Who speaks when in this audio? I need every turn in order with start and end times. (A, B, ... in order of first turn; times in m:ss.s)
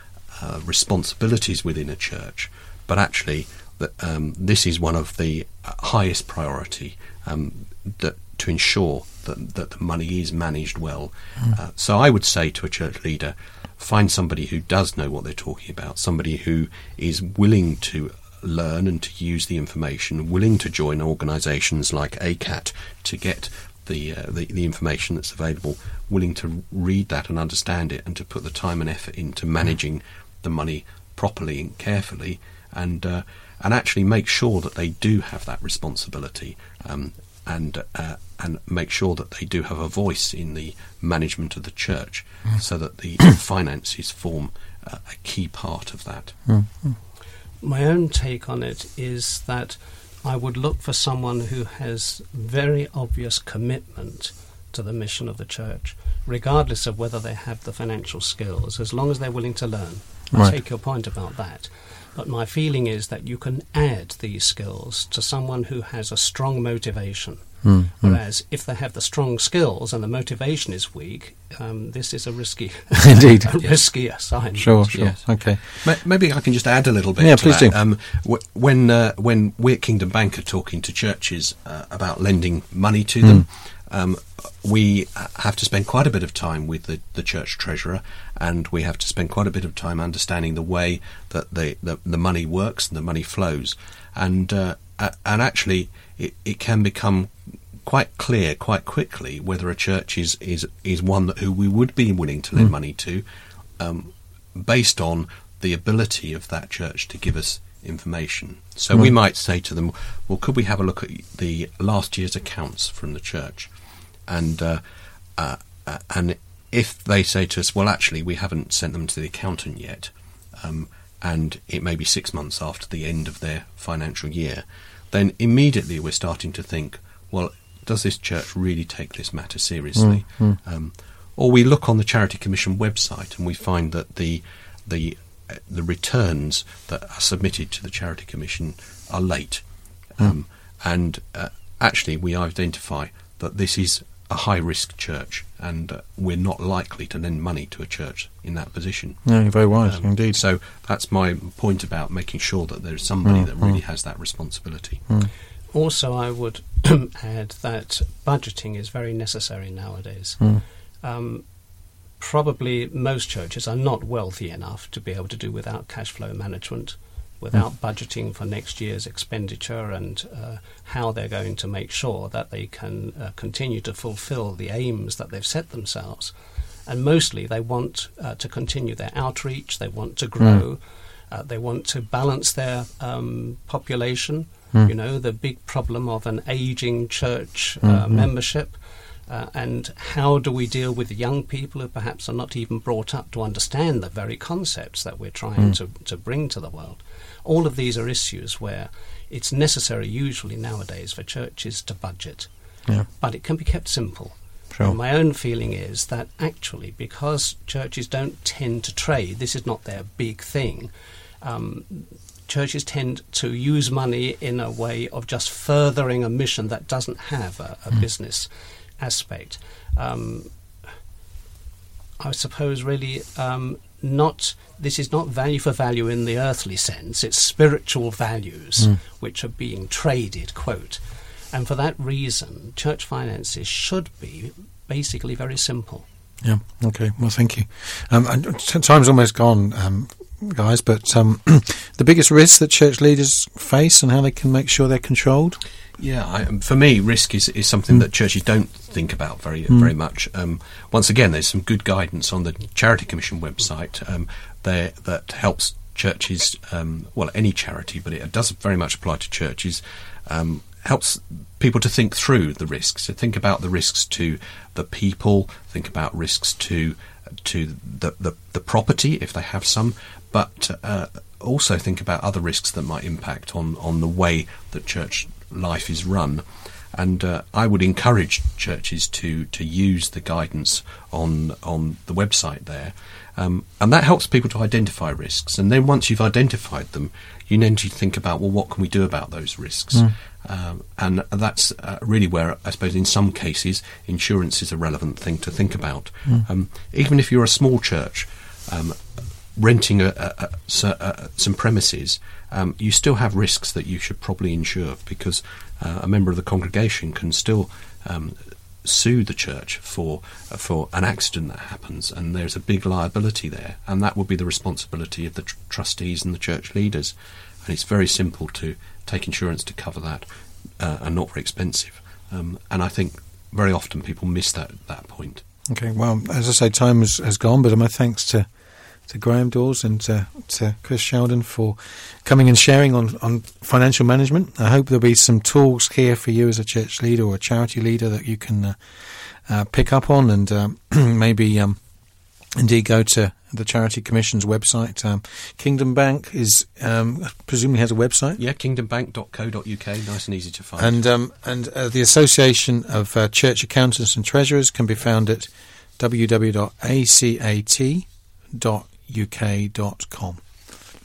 0:00.3-0:46.4 A
0:46.5-0:47.0 B
0:47.6-1:15.0 C
1:07.6-1:08.2 B
1:13.0-1:13.5 B
1:14.6-1:15.6 B
1:14.9-1:37.3 A
1:17.2-1:17.7 B
1:37.8-1:43.2 A
1:43.8-1:53.7 A
1:54.3-1:54.8 A
1:55.4-2:19.6 A
2:10.0-2:10.6 B
2:20.2-2:29.2 A
2:29.2-2:30.4 B
2:29.8-2:35.0 A
2:33.2-2:33.8 B
2:35.7-2:40.5 C
2:41.0-2:41.4 C
2:42.2-2:56.3 C
2:56.8-3:08.8 C
3:07.8-3:08.2 B
3:09.3-3:22.5 C
3:23.2-3:30.9 C
3:31.4-3:38.5 C
3:39.0-3:40.5 C
3:42.2-3:51.0 C
3:51.5-3:56.0 C
3:56.4-4:05.6 B
4:06.0-4:59.0 A
4:59.6-5:20.2 A
5:20.8-5:25.4 A
5:25.7-5:28.5 B
5:29.1-5:41.8 B
5:42.6-5:48.4 B
5:48.4-5:51.0 A
5:50.8-6:00.4 B